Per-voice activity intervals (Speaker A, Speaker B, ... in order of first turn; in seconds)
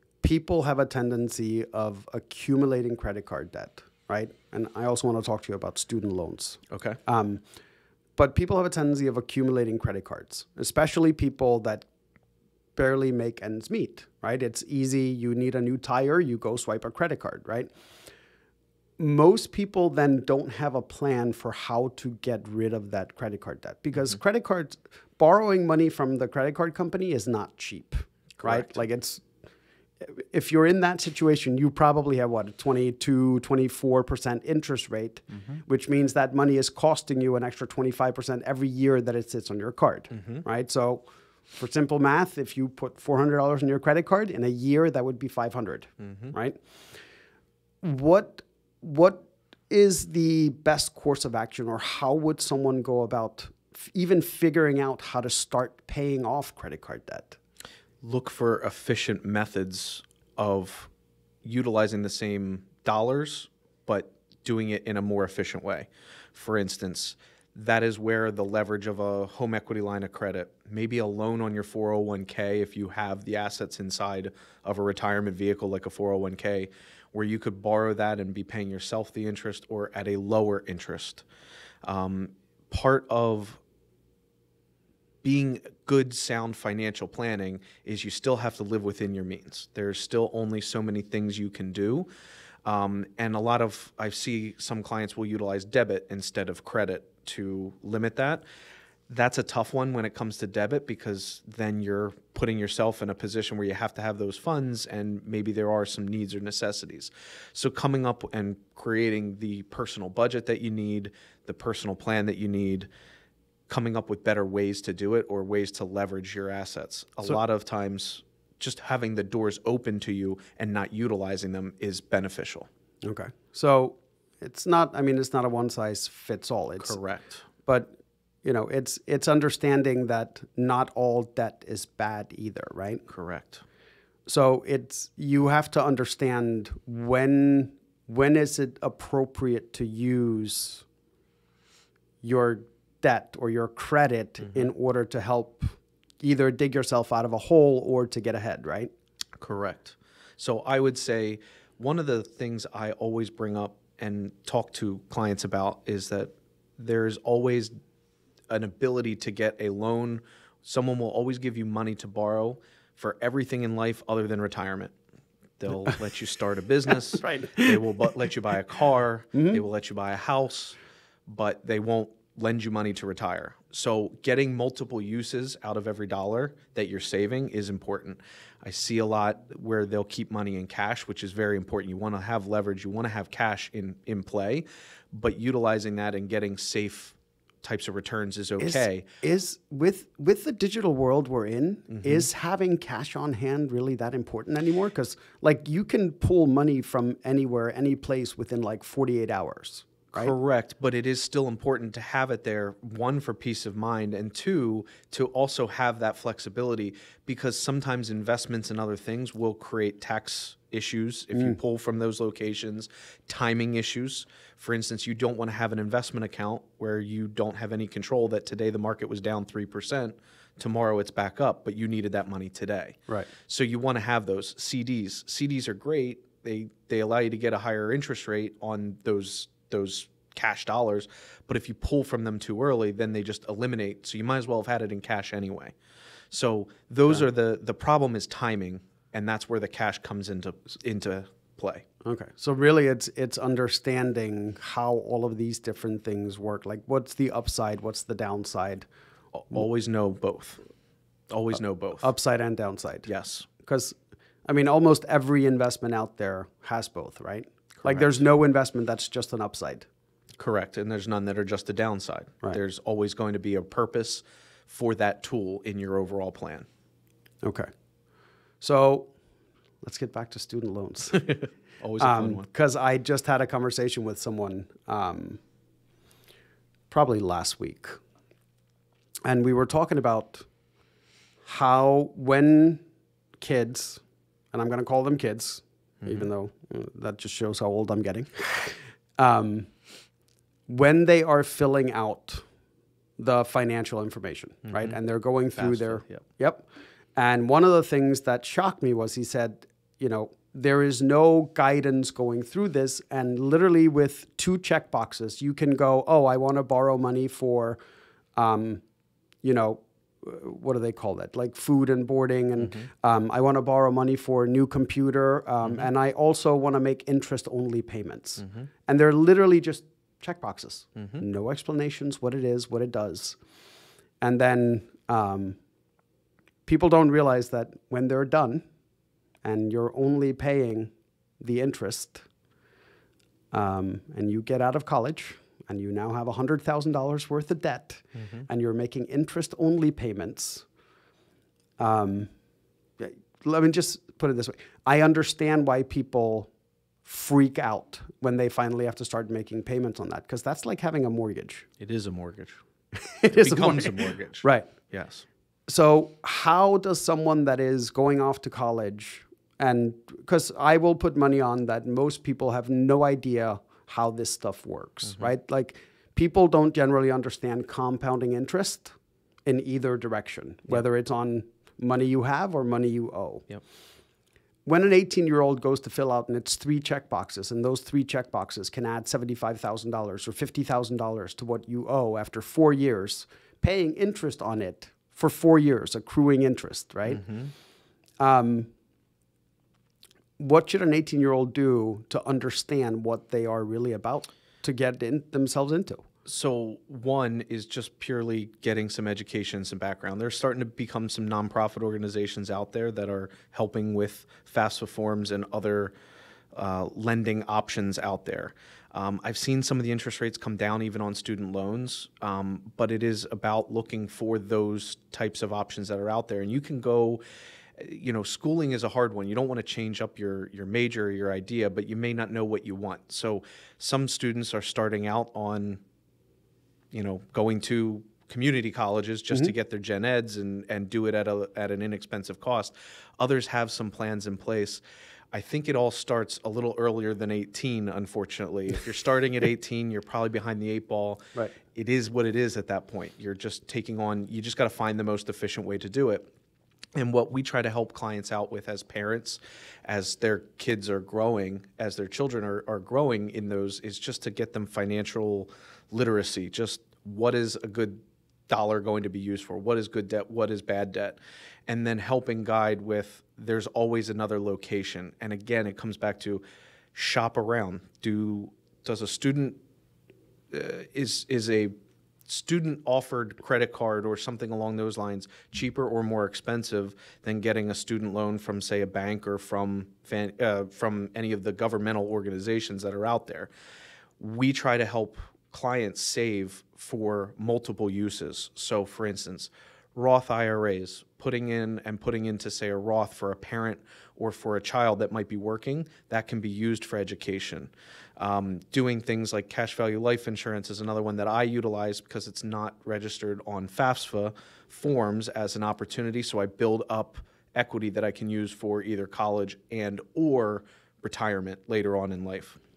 Speaker A: 0.2-7.4, 8.2-11.9, 12.8-17.7, 19.0-29.2, 30.0-46.6, 47.8-57.4, 123.0-127.0, 127.6-133.0, 134.3-140.8, 142.2-148.9, 167.2-167.8, 169.3-169.6, 188.6-200.3, 242.0-248.9, 252.0-259.9, 267.4-267.7, 268.6-269.1, 269.8-271.4, 272.0-275.4, 276.9-278.0, 279.2-280.5, 281.4-282.8, 283.4-289.7, 290.7-292.4, 293.2-307.8, 308.4-308.8, 309.4-323.4, 324.2-325.6, 326.6-328.6, 329.4-332.2, 333.5-340.6, 341.8-342.3, 343.0-346.5, 347.0-351.7, 353.0-354.7, 355.7-368.9, 369.5-373.5, 374.6-387.2, 388.2-388.7, 390.4-396.0
Speaker B: 6.7-7.0, 28.4-28.7, 40.1-40.4, 46.0-46.3, 58.0-60.9, 61.4-81.2, 81.8-83.6, 85.2-92.1, 92.6-98.4, 99.1-112.9, 113.7-122.7, 126.8-127.4, 133.1-133.6, 149.4-157.7, 158.5-164.9, 165.6-189.1, 191.9-192.3, 200.1-235.8, 236.3-241.8, 249.3-250.6, 251.3-252.1, 253.1-253.5, 257.8-258.2, 260.4-266.7, 271.1-272.5, 286.0-286.3, 294.7-295.0, 295.6-296.2, 312.6-312.9, 315.6-315.9, 318.4-318.7, 321.0-321.2, 351.8-352.6, 353.3-355.2, 365.0-365.3, 387.1-387.5, 396.2-405.9, 406.5-417.2, 417.8-425.8, 426.9-434.8, 435.3-446.3, 446.9-466.4, 466.9-469.6, 470.5-471.7, 472.3-483.5, 484.2-512.6